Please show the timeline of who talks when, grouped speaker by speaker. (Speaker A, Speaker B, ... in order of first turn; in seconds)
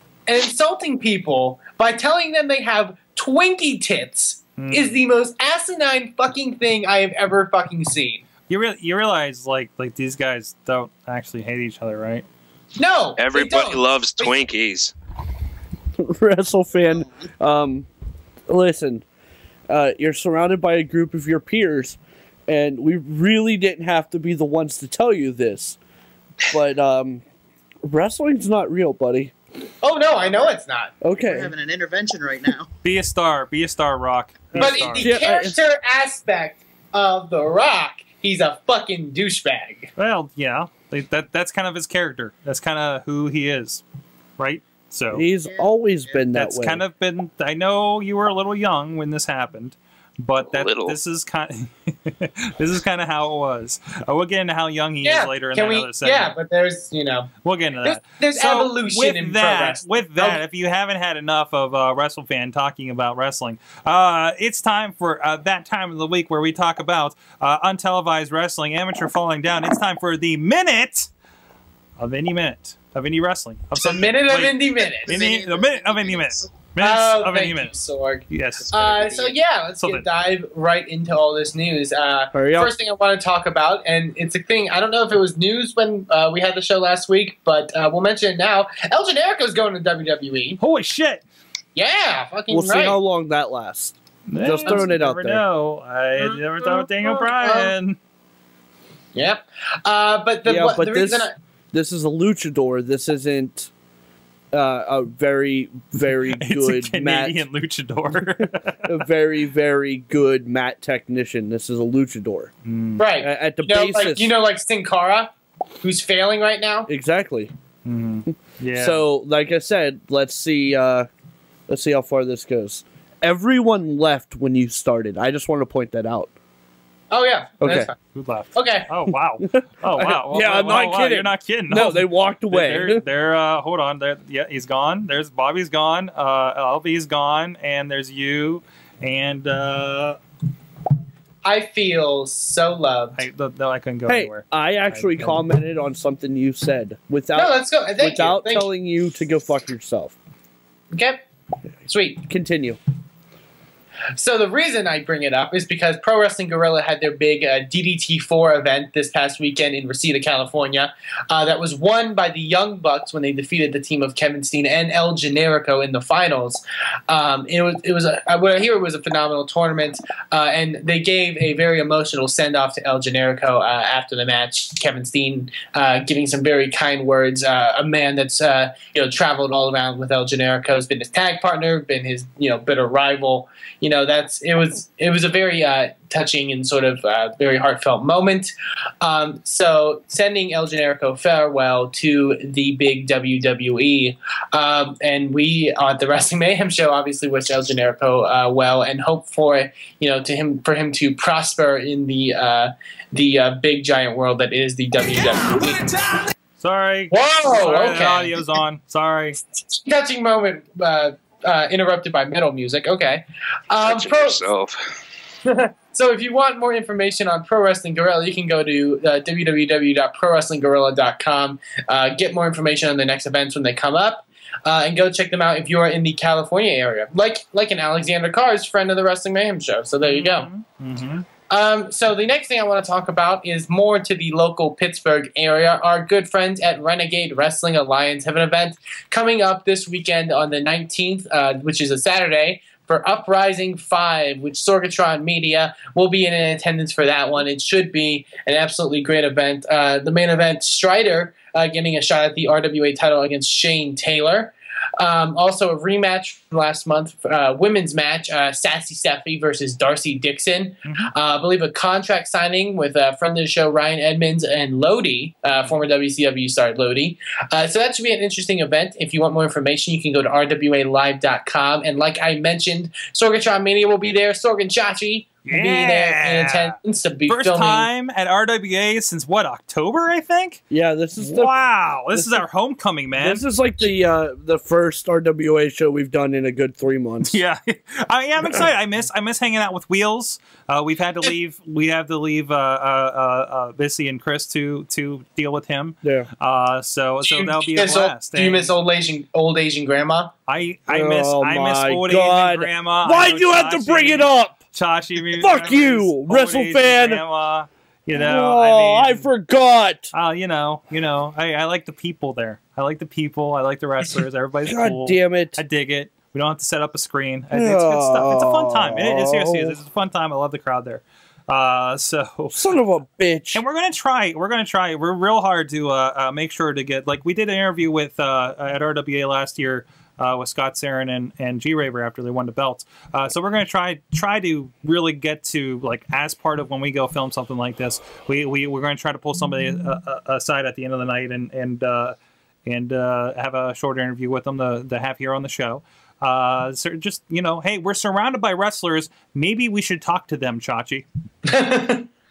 Speaker A: 0.3-8.2, 12.8-14.4, 29.8-31.0, 34.6-39.9, 55.0-57.3, 57.8-60.4, 73.8-75.3, 76.8-90.6, 91.8-93.0, 96.2-97.7, 99.2-101.3, 113.0-116.9, 127.1-127.9, 128.6-128.9, 141.4-143.2, 147.3-148.7, 150.9-151.2, 151.9-152.2, 154.2-206.0, 207.1-208.3, 209.6-214.4, 215.4-230.5, 231.5-277.9, 297.2-300.3, 351.5-352.1
Speaker B: 4.6-5.0, 8.5-12.2, 32.8-35.1, 40.0-43.8, 44.4-45.3, 46.3-56.3, 57.4-71.1, 72.0-77.7, 78.3-78.7, 90.6-91.2, 94.3-98.0, 106.3-109.0, 112.7-113.0, 117.8-119.1, 128.1-140.2, 143.2-145.4, 206.6-209.4, 230.0-231.3, 275.5-280.6, 281.2-283.4, 287.2-298.7, 300.5-309.3, 310.1-322.7, 323.5-351.1
Speaker C: 13.2-14.9, 50.5-51.0, 213.8-214.8
Speaker D: 16.0-17.9, 18.5-19.0, 19.7-25.8, 26.5-27.2, 27.9-29.3, 31.0-31.5, 34.5-35.6, 45.1-46.8, 82.3-82.7, 92.5-95.4, 100.5-103.7, 104.5-107.4, 108.9-112.5, 113.2-114.3, 116.9-117.5, 118.3-121.1, 121.7-126.3, 127.6-127.9, 129.4-133.0, 144.1-150.1, 152.3-152.8, 280.7-281.6, 282.1-282.4, 283.2-287.4, 300.9-304.6, 305.4-307.2, 308.1-310.1, 314.7-315.6, 317.5-319.8, 322.5-323.6
Speaker E: 31.2-32.7, 75.1-76.5, 78.6-79.4